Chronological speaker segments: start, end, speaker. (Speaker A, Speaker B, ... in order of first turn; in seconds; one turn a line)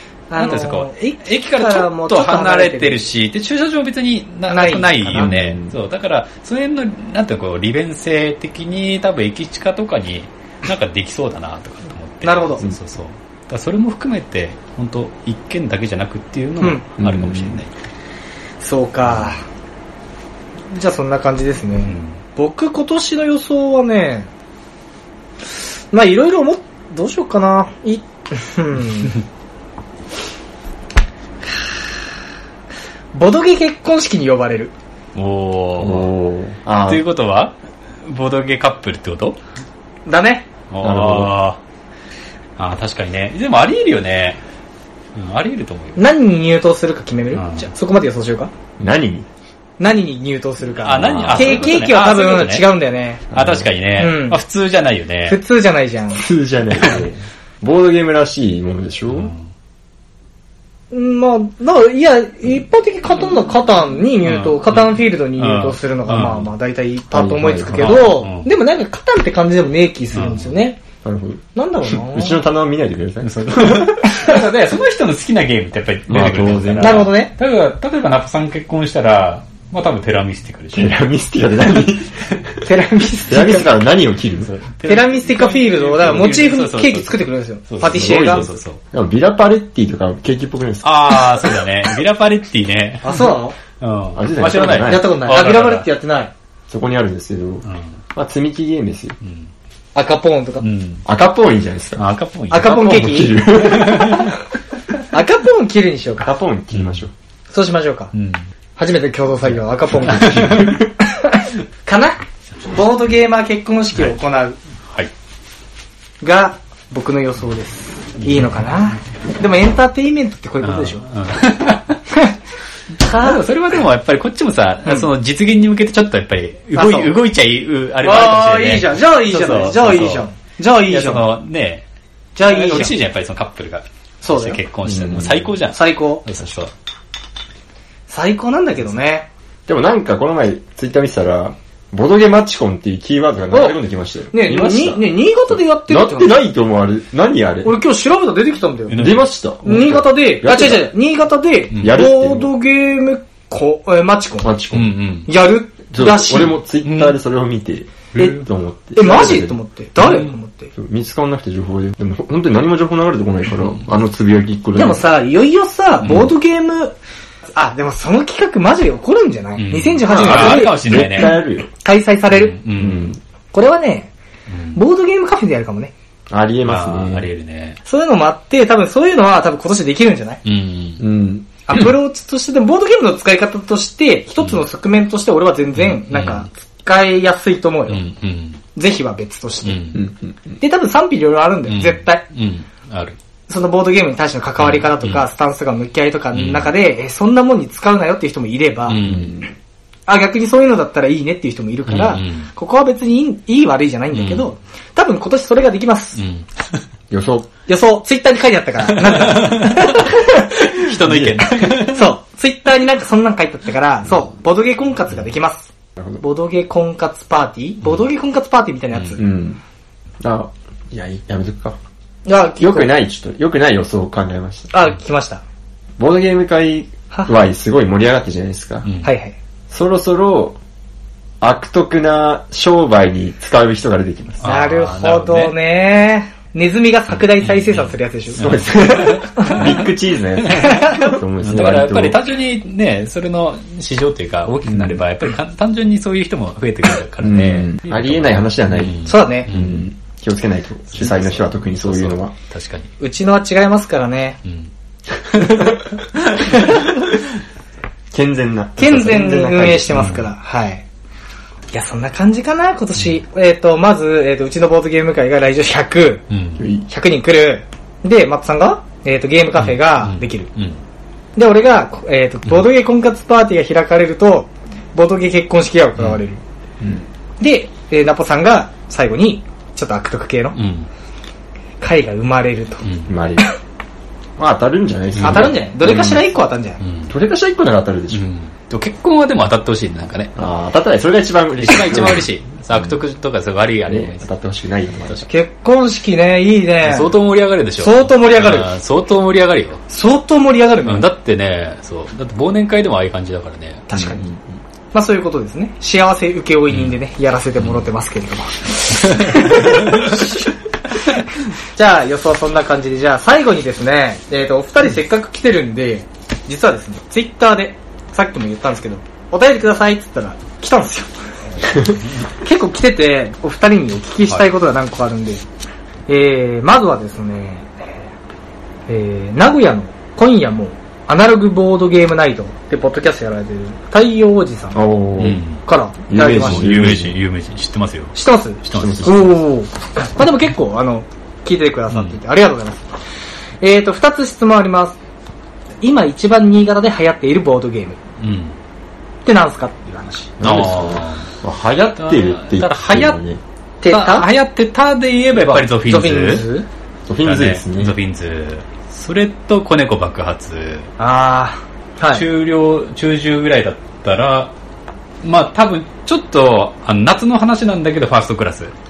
Speaker A: 0.3-3.0
Speaker B: 0.4-17.7
Speaker A: 4.5-5.3
Speaker C: 5.1-5.8
Speaker A: 12.2-12.6
Speaker A: 16.6-16.9
Speaker C: 17.0-17.6
Speaker A: 18.6-19.4
Speaker A: 20.7-24.3
Speaker B: 21.8-22.2
Speaker A: 25.9-29.2
Speaker A: 33.1-34.7
Speaker B: 35.1-36.1
Speaker C: 35.8-37.0
Speaker B: 36.9-37.5
Speaker B: 38.0-39.4
Speaker A: 40.1-40.5
Speaker B: 40.7-41.6
Speaker C: 40.8-41.4
Speaker B: 42.6-44.4
Speaker B: 45.1-46.0
Speaker A: 46.0-48.5
Speaker B: 47.3-47.7
Speaker C: 48.8-49.3
Speaker A: 49.8-53.2
Speaker B: 50.8-52.7
Speaker C: 50.9-51.8
Speaker C: 53.3-53.7
Speaker B: 53.3-55.4
Speaker A: 54.0-54.4
Speaker A: 55.3-56.2
Speaker C: 56.1-59.3
Speaker B: 59.1-59.4
Speaker A: 60.9-70.8
Speaker B: 64.2-66.5
Speaker C: 67.1-68.1
Speaker B: 67.7-68.5
Speaker B: 70.1-70.5
Speaker C: 71.0-74.0
Speaker A: 71.5-72.4
Speaker B: 73.2-81.0
Speaker C: 76.1-77.1
Speaker A: 76.8-77.3
Speaker C: 80.7-82.6
Speaker A: 82.7-83.7
Speaker C: 83.3-84.5
Speaker B: 84.4-88.8
Speaker A: 84.8-88.5
Speaker C: 87.9-91.5
Speaker B: 90.8-93.2
Speaker A: 93.0-93.6
Speaker B: 93.8-95.9
Speaker C: 94.1-95.1
Speaker A: 94.8-96.3
Speaker C: 96.7-99.2
Speaker B: 97.6-97.9
Speaker B: 99.2-99.5
Speaker A: 100.0-100.7
Speaker B: 100.6-101.0
Speaker C: 101.0-102.1
Speaker B: 102.0-103.0
Speaker A: 102.5-103.4
Speaker C: 102.7-104.3
Speaker B: 103.5-104.3
Speaker A: 105.1-106.3
Speaker C: 106.2-107.1
Speaker A: 107.5-108.1
Speaker B: 108.1-108.5
Speaker A: 108.8-114.6
Speaker B: 110.1-110.8
Speaker A: 116.2-121.0
Speaker B: 118.2-118.9
Speaker B: 120.6-122.0
Speaker A: 123.0-123.4
Speaker B: 123.1-130.3
Speaker A: 126.8-127.1
Speaker A: 128.0-131.2
Speaker B: 130.9-131.8
Speaker A: 132.4-132.9
Speaker B: 132.4-136.7
Speaker A: 134.2-134.6
Speaker C: 134.8-135.5
Speaker A: 135.7-136.2
Speaker A: 138.1-139.3
Speaker C: 139.7-147.8
Speaker A: 144.3-146.4
Speaker A: 147.6-149.1
Speaker B: 148.9-149.2
Speaker C: 149.0-150.9
Speaker A: 149.6-154.5
Speaker C: 151.8-152.5
Speaker C: 154.4-155.0
Speaker B: 154.7-155.3
Speaker A: 155.3-156.6
Speaker C: 155.9-159.6
Speaker B: 156.8-157.2
Speaker B: 158.1-158.5
Speaker A: 159.0-160.7
Speaker B: 160.0-160.3
Speaker C: 160.8-165.1
Speaker A: 164.8-167.0
Speaker A: 167.6-172.6
Speaker B: 169.6-171.4
Speaker C: 170.0-171.7
Speaker B: 172.3-173.1
Speaker C: 172.8-173.2
Speaker A: 173.5-174.1
Speaker B: 174.5-174.8
Speaker A: 174.7-175.9
Speaker C: 176.3-177.3
Speaker B: 176.7-177.8
Speaker A: 177.9-180.4
Speaker B: 180.4-181.0
Speaker C: 181.0-181.9
Speaker A: 181.7-188.0
Speaker B: 185.8-186.5
Speaker B: 187.9-188.6
Speaker A: 188.8-189.9
Speaker B: 189.7-190.0
Speaker C: 189.9-190.6
Speaker A: 190.6-192.2
Speaker B: 191.7-193.2
Speaker A: 193.5-199.0
Speaker B: 194.6-195.2
Speaker B: 196.3-196.7
Speaker B: 198.9-199.4
Speaker C: 199.0-199.5
Speaker A: 200.1-206.2
Speaker B: 201.9-202.5
Speaker B: 204.1-204.5
Speaker B: 206.2-206.5
Speaker C: 207.1-207.5
Speaker A: 207.7-210.9
Speaker B: 209.0-212.1
Speaker C: 210.9-211.8
Speaker A: 211.8-219.2
Speaker C: 216.0-216.2
Speaker B: 218.9-219.2
Speaker C: 219.2-219.6
Speaker C: 220.2-221.8
Speaker A: 222.3-222.9
Speaker C: 222.6-224.7
Speaker A: 224.7-225.4
Speaker C: 226.0-228.9
Speaker B: 228.8-229.1
Speaker A: 229.0-229.4
Speaker C: 229.7-230.6
Speaker C: 231.4-234.6
Speaker B: 234.4-235.5
Speaker A: 234.4-238.6
Speaker B: 237.4-239.8
Speaker C: 238.4-242.2
Speaker A: 239.4-239.6
Speaker B: 240.4-249.9
Speaker A: 240.6-241.1
Speaker C: 244.7-245.0
Speaker C: 247.2-252.3
Speaker A: 249.1-249.5
Speaker B: 250.9-252.9
Speaker A: 253.0-254.4
Speaker B: 254.4-254.7
Speaker A: 255.4-255.7
Speaker A: 256.4-256.9
Speaker C: 258.1-260.1
Speaker A: 258.8-260.8
Speaker B: 259.9-260.3
Speaker A: 261.7-266.2
Speaker B: 266.3-266.7
Speaker C: 266.6-266.9
Speaker A: 266.9-270.5
Speaker B: 269.6-270.8
Speaker A: 271.4-276.4
Speaker A: 277.4-280.6
Speaker B: 280.5-280.9
Speaker A: 281.8-282.8
Speaker B: 282.8-283.1
Speaker C: 283.1-283.5
Speaker C: 284.4-286.3
Speaker B: 285.2-285.5
Speaker A: 285.2-286.8
Speaker B: 286.8-287.1
Speaker C: 287.1-288.3
Speaker B: 288.1-290.3
Speaker C: 290.4-293.0
Speaker B: 291.6-294.3
Speaker C: 293.9-295.3
Speaker A: 295.3-297.1
Speaker B: 296.8-299.8
Speaker A: 297.8-298.7
Speaker A: 299.9-301.1
Speaker B: 300.9-303.9
Speaker A: 303.9-304.2
Speaker C: 303.9-304.4
Speaker A: 304.9-310.4
Speaker B: 306.7-307.0
Speaker B: 307.6-307.9
Speaker B: 309.2-310.1
Speaker A: 311.7-325.5
Speaker A: 326.1-328.1
Speaker A: 328.9-334.8
Speaker C: 334.7-335.4
Speaker B: 335.2-335.6
Speaker A: 335.6-336.9
Speaker C: 336.1-337.2
Speaker B: 336.2-339.4
Speaker A: 338.1-342.9
Speaker C: 338.8-339.3
Speaker B: 341.9-342.2
Speaker A: 343.6-345.0
Speaker A: 345.8-348.0
Speaker B: 348.2-348.6
Speaker A: 349.2-350.3
Speaker C: 350.4-353.4
Speaker B: 350.4-351.3
Speaker B: 352.0-353.2
Speaker A: 353.8-354.3
Speaker B: 353.9-356.4
Speaker A: 355.4-356.7
Speaker C: 357.1-357.9
Speaker B: 357.2-360.9
Speaker A: 361.0-362.2
Speaker B: 362.1-364.5
Speaker B: 365.2-368.7